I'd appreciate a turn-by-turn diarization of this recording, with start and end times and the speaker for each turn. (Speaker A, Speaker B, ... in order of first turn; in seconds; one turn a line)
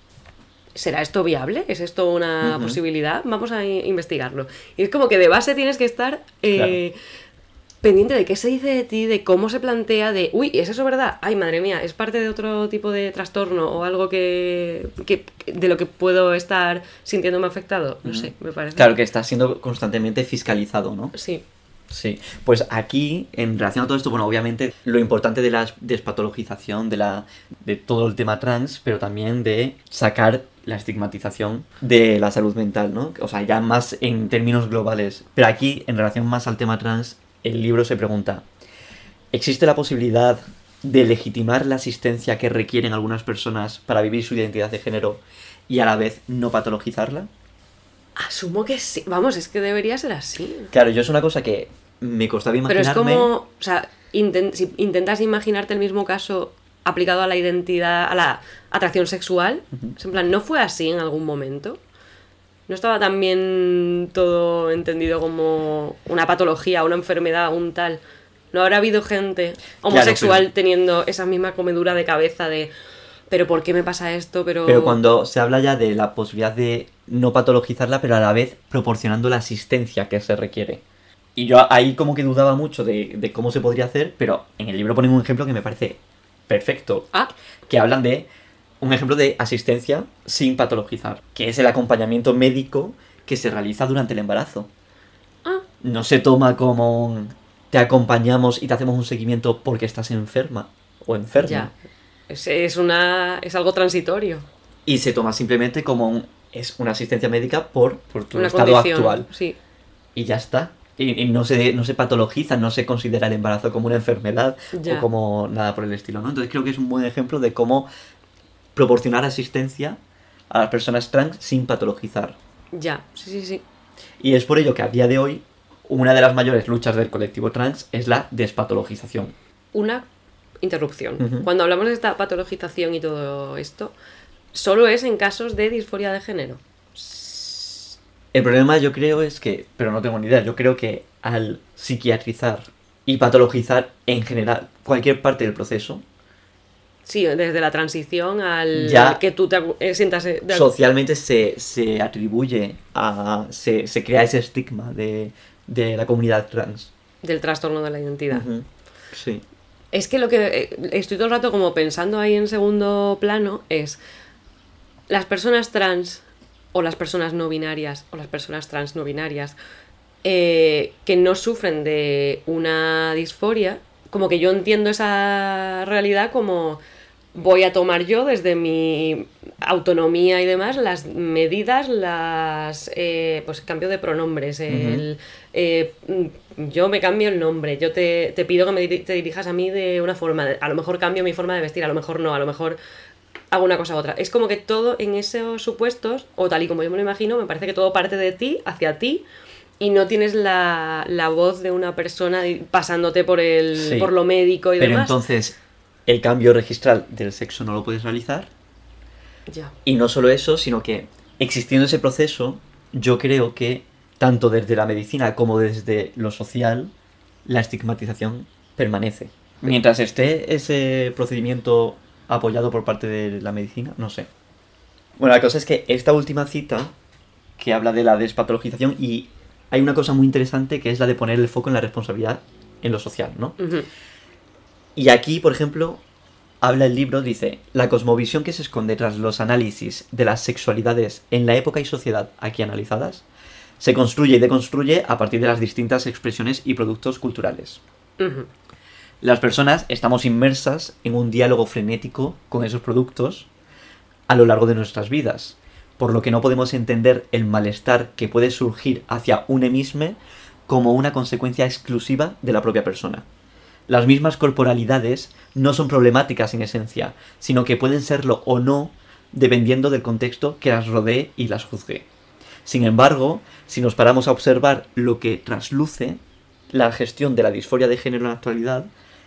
Speaker A: 0.8-7.0
Speaker B: 2.4-2.8
Speaker B: 6.5-6.8
Speaker A: 7.8-19.0
Speaker B: 18.1-21.1
Speaker A: 21.1-21.4
Speaker B: 21.9-38.5
Speaker B: 39.3-47.3
Speaker A: 48.2-50.7
Speaker B: 50.7-53.3
Speaker A: 52.7-61.8
Speaker A: 62.7-68.0
Speaker A: 68.5-72.7
Speaker B: 69.9-70.5
Speaker A: 73.3-75.0
Speaker B: 74.7-80.8
Speaker B: 81.4-87.1
Speaker B: 87.7-88.3
Speaker B: 88.8-94.7
Speaker B: 95.8-101.7
Speaker A: 101.4-101.7
Speaker A: 102.3-104.5
Speaker B: 104.9-109.3
Speaker A: 108.3-109.6
Speaker B: 110.2-117.9
Speaker A: 114.7-115.1
Speaker B: 118.8-120.0
Speaker B: 120.5-122.4
Speaker A: 122.7-123.6
Speaker B: 124.2-129.3
Speaker A: 129.7-130.0
Speaker A: 130.6-133.9
Speaker B: 131.2-131.5
Speaker A: 134.5-137.9
Speaker B: 138.3-146.0
Speaker A: 147.1-150.7
Speaker B: 148.7-149.2
Speaker B: 150.5-156.9
Speaker A: 157.2-158.5
Speaker B: 158.3-159.4
Speaker A: 159.9-164.0
Speaker A: 165.1-169.6
Speaker A: 170.2-176.8
Speaker A: 177.3-192.8
Speaker B: 184.7-185.1
Speaker A: 193.5-199.2
Speaker A: 199.8-205.2
Speaker B: 203.8-204.1
Speaker B: 204.8-205.6
Speaker B: 206.1-208.5
Speaker A: 209.5-209.7
Speaker B: 209.8-216.9
Speaker B: 217.5-224.3
Speaker B: 225.2-226.9
Speaker B: 227.6-233.6
Speaker A: 233.6-233.9
Speaker B: 235.0-236.0
Speaker B: 236.6-243.2
Speaker B: 243.8-247.8
Speaker A: 248.2-248.5
Speaker B: 249.2-253.5
Speaker B: 254.3-263.3
Speaker B: 263.9-272.1
Speaker B: 272.6-276.2
Speaker B: 276.7-278.9